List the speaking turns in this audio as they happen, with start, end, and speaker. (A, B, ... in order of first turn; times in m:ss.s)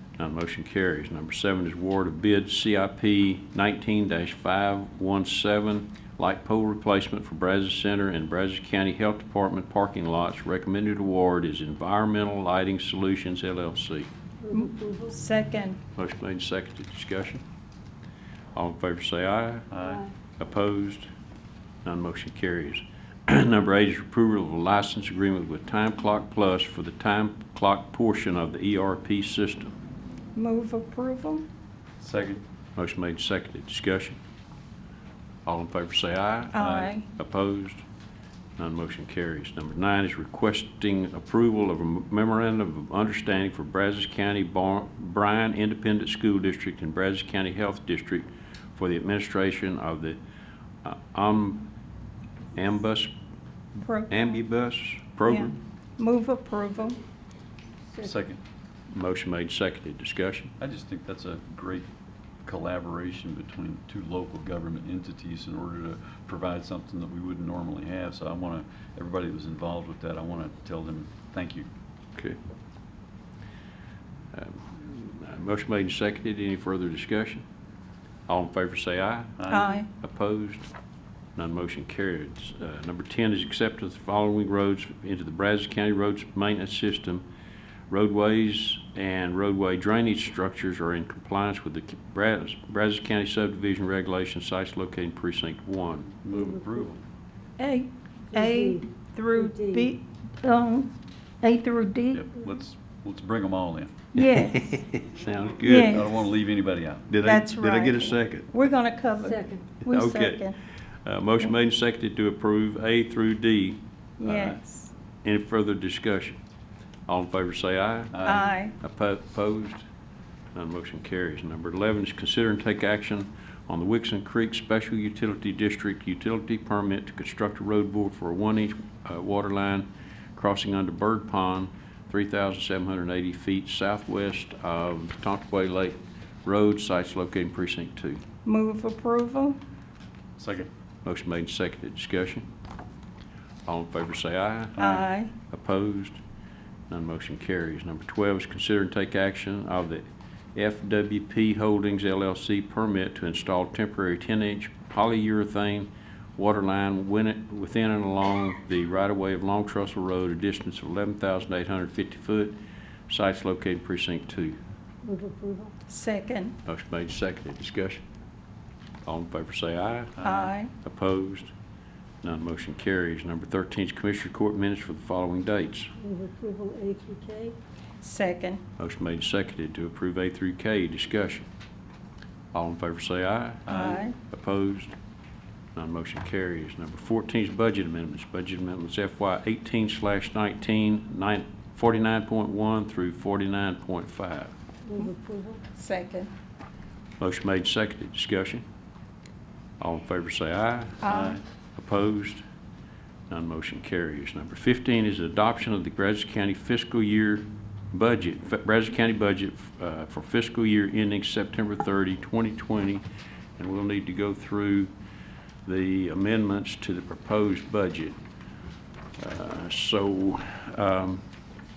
0:00.2-0:14.1 A
0:14.4-0:15.2 B
0:14.5-0:15.8 C
0:16.0-0:17.4 A
0:18.5-0:19.7 A
0:19.7-0:20.0 D
0:20.4-0:21.1 A
0:21.8-0:29.7 A
0:30.4-0:31.5 C
0:32.0-0:32.4 D
0:32.8-0:34.2 A
0:35.4-0:37.8 A
0:36.5-0:37.0 C
0:36.6-0:36.9 D
0:38.6-0:50.2 A
0:50.8-0:51.7 A
0:52.5-0:53.1 A
0:53.8-0:54.3 C
0:54.1-0:55.6 A
0:55.3-0:57.0 C
0:58.0-0:58.4 D
0:58.9-1:00.5 A
1:00.6-1:01.9 D
1:02.4-1:11.7 D
1:14.3-1:17.4 A
1:18.3-1:20.7 A
1:19.4-1:19.8 D
1:19.5-1:19.9 C
1:21.4-1:27.2 A
1:27.9-1:36.2 A
1:36.2-1:37.0 D
1:36.3-1:36.6 B
1:37.6-1:42.2 C
1:38.3-1:39.9 B
1:42.1-1:44.0 D
1:44.1-1:44.6 C
1:44.2-1:46.1 A
1:45.6-1:46.1 C
1:45.7-1:47.1 D
1:47.1-1:48.5 A
1:47.2-1:50.6 C
1:49.2-1:49.7 B
1:49.8-1:50.5 A
1:51.0-1:54.6 A
1:54.2-1:54.9 C
1:55.2-1:56.4 A
1:57.1-1:59.8 A
1:58.1-1:58.5 D
1:58.2-1:58.7 C
2:00.5-2:18.2 A
2:18.4-2:19.6 C
2:20.4-2:20.7 D
2:21.0-2:22.5 A
2:23.7-2:26.2 A
2:24.8-2:25.0 D
2:24.8-2:25.3 C
2:26.9-2:42.6 A
2:43.1-2:44.6 A
2:45.0-2:45.7 B
2:45.9-2:46.6 C
2:46.6-2:48.0 A
2:49.0-2:51.5 A
2:50.2-2:50.5 D
2:50.2-2:50.7 C
2:52.2-2:55.9 A
2:56.0-2:57.6 B
2:58.0-2:58.6 C
2:58.8-3:01.4 A
3:02.5-3:04.9 A
3:03.7-3:04.0 D
3:03.7-3:04.2 C
3:05.7-3:14.5 A
3:14.8-3:15.6 B
3:15.7-3:16.3 C
3:17.2-3:18.6 A
3:19.8-3:22.4 A
3:21.0-3:21.4 C
3:21.1-3:21.4 D
3:23.3-3:33.0 A
3:33.6-3:34.9 A
3:35.6-3:38.2 A
3:39.2-3:41.2 A